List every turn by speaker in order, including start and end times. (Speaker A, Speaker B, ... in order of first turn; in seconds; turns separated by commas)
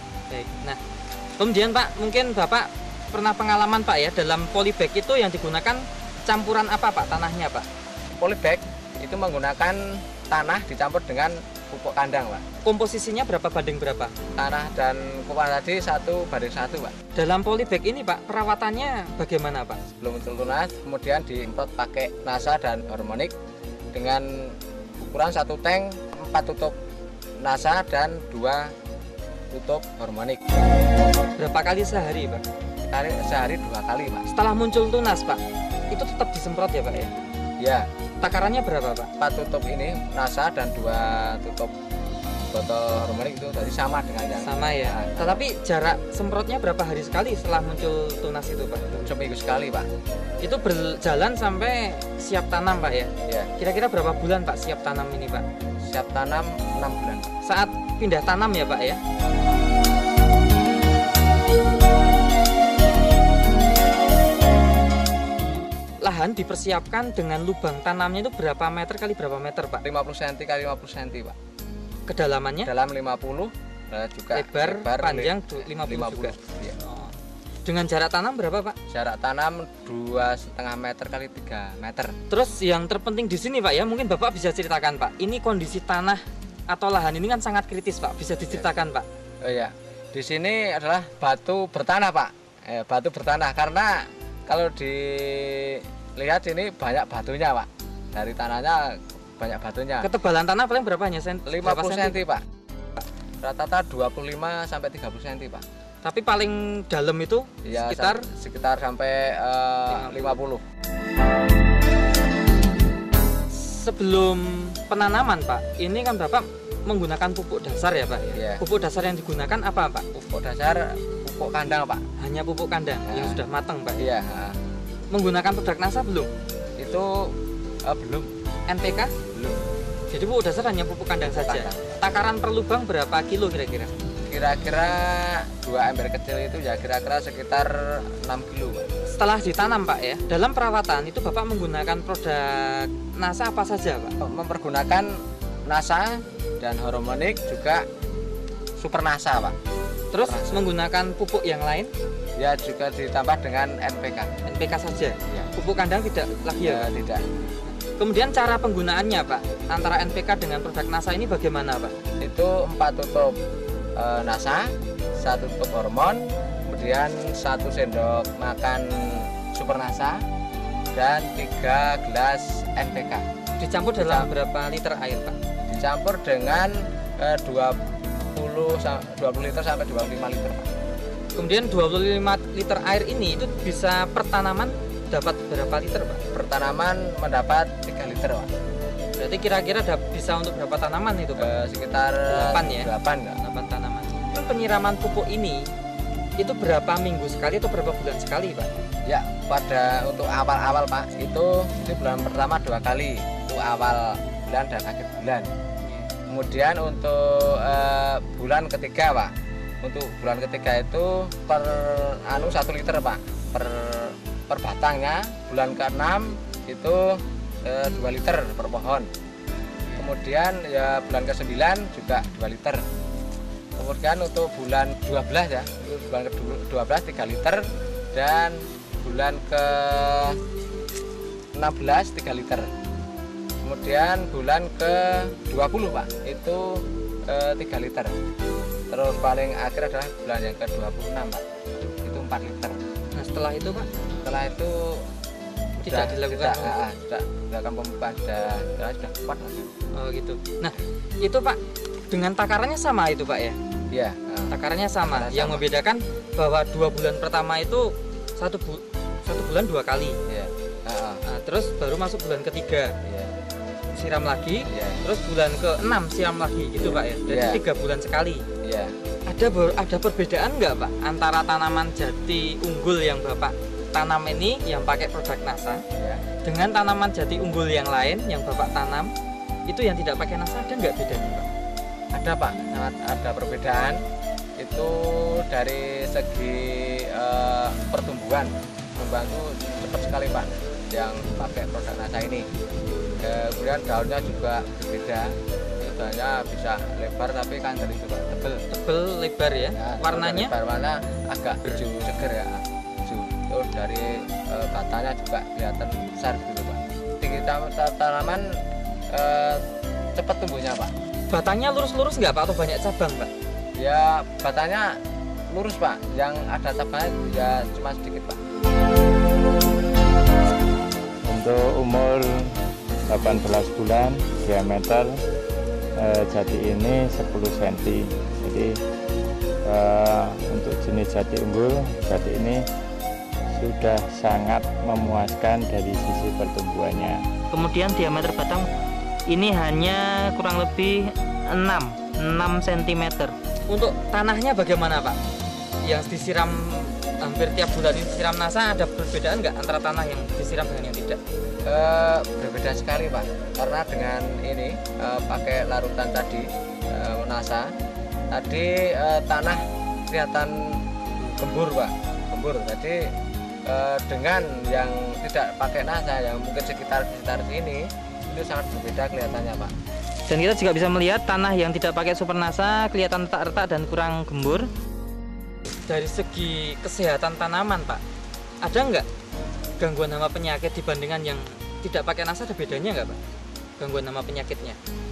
Speaker A: 0.3-0.8, Speaker A: 1.4-7.7, Speaker B: 8.2-12.4, Speaker A: 12.7-14.1, Speaker B: 14.4-16.9, Speaker A: 17.1-19.8, Speaker B: 20.0-23.3, Speaker B: 23.9-26.8, Speaker B: 27.4-28.7, Speaker B: 29.5-30.4, Speaker A: 31.4-32.4, Speaker B: 32.9-34.3, Speaker A: 34.3-35.4, Speaker A: 35.9-37.1, Speaker B: 37.6-37.9, Speaker A: 38.2-39.1, Speaker B: 39.2-41.7, Speaker B: 42.5-45.5, Speaker A: 44.4-49.0, Speaker B: 48.9-49.9, Speaker A: 50.4-55.4, Speaker B: 55.8-57.3, Speaker A: 57.4-59.0, Speaker A: 66.0-69.8, Speaker B: 69.8-71.4, Speaker A: 72.1-72.7, Speaker B: 72.7-76.8, Speaker A: 74.3-78.8, Speaker B: 78.9-82.1, Speaker A: 82.3-89.1, Speaker B: 89.4-100.1, Speaker A: 100.0-102.2, Speaker B: 101.5-102.4, Speaker B: 103.4-105.6, Speaker A: 106.0-108.2, Speaker B: 107.7-110.6, Speaker A: 109.9-110.3, Speaker A: 113.5-120.0, Speaker B: 118.3-118.6, Speaker B: 120.1-122.0, Speaker A: 122.2-124.1, Speaker B: 123.1-123.4, Speaker B: 124.0-124.6, Speaker A: 125.1-126.3, Speaker B: 126.8-127.3, Speaker B: 127.9-128.3, Speaker A: 128.7-129.1, Speaker B: 129.3-129.7, Speaker A: 130.1-133.9, Speaker B: 131.2-132.0, Speaker B: 134.3-138.9, Speaker A: 139.1-144.1, Speaker B: 144.2-145.1, Speaker B: 145.7-147.9, Speaker B: 148.8-149.6, Speaker A: 150.1-151.9, Speaker B: 150.2-150.7, Speaker B: 152.4-154.3, Speaker A: 154.5-156.9, Speaker B: 156.6-157.2, Speaker A: 157.9-161.9, Speaker B: 162.2-163.3, Speaker B: 164.0-170.2, Speaker B: 170.9-173.2, Speaker A: 173.6-175.3, Speaker B: 174.0-174.3, Speaker B: 175.7-177.8, Speaker B: 178.3-180.7, Speaker A: 181.4-186.2, Speaker B: 186.3-188.5, Speaker A: 189.2-191.6, Speaker B: 191.4-193.4, Speaker A: 192.3-195.7, Speaker A: 196.4-198.7, Speaker B: 199.1-205.5, Speaker B: 206.3-209.3, Speaker B: 209.8-219.1, Speaker B: 220.0-222.8, Speaker B: 223.8-230.4, Speaker B: 231.6-232.7, Speaker B: 233.7-238.2, Speaker B: 238.9-241.4, Speaker B: 242.0-242.8, Speaker A: 243.2-243.9, Speaker B: 244.2-245.1, Speaker A: 245.8-246.7, Speaker B: 245.8-249.7, Speaker A: 249.9-251.6, Speaker A: 252.1-253.6, Speaker B: 253.9-255.6, Speaker A: 254.5-260.2, Speaker B: 260.3-261.2, Speaker A: 261.3-262.9, Speaker B: 263.0-263.3, Speaker A: 263.9-268.4, Speaker B: 264.7-265.0, Speaker B: 266.8-267.6, Speaker B: 268.6-268.9, Speaker A: 269.3-275.8, Speaker B: 276.0-276.2, Speaker A: 276.4-279.1, Speaker A: 279.7-281.5, Speaker B: 282.1-284.0, Speaker B: 284.6-292.5, Speaker B: 293.2-298.6, Speaker A: 298.7-300.5, Speaker B: 299.8-308.6, Speaker B: 309.1-309.6, Speaker B: 310.1-310.9, Speaker A: 311.3-313.3, Speaker B: 313.8-315.0, Speaker B: 315.5-318.4, Speaker C: 321.3-322.5, Speaker C: 323.1-325.1, Speaker C: 326.0-328.7, Speaker C: 329.7-332.6, Speaker C: 333.6-337.2, Speaker A: 337.5-338.7, Speaker A: 339.3-345.2, Speaker A: 345.9-351.2, Speaker B: 351.7-357.7, Speaker B: 358.3-360.8, Speaker B: 361.4-363.1, Speaker B: 363.7-369.7, Speaker A: 370.3-374.7, Speaker A: 375.9-378.0, Speaker A: 378.6-379.1, Speaker A: 379.8-383.2, Speaker A: 383.8-384.8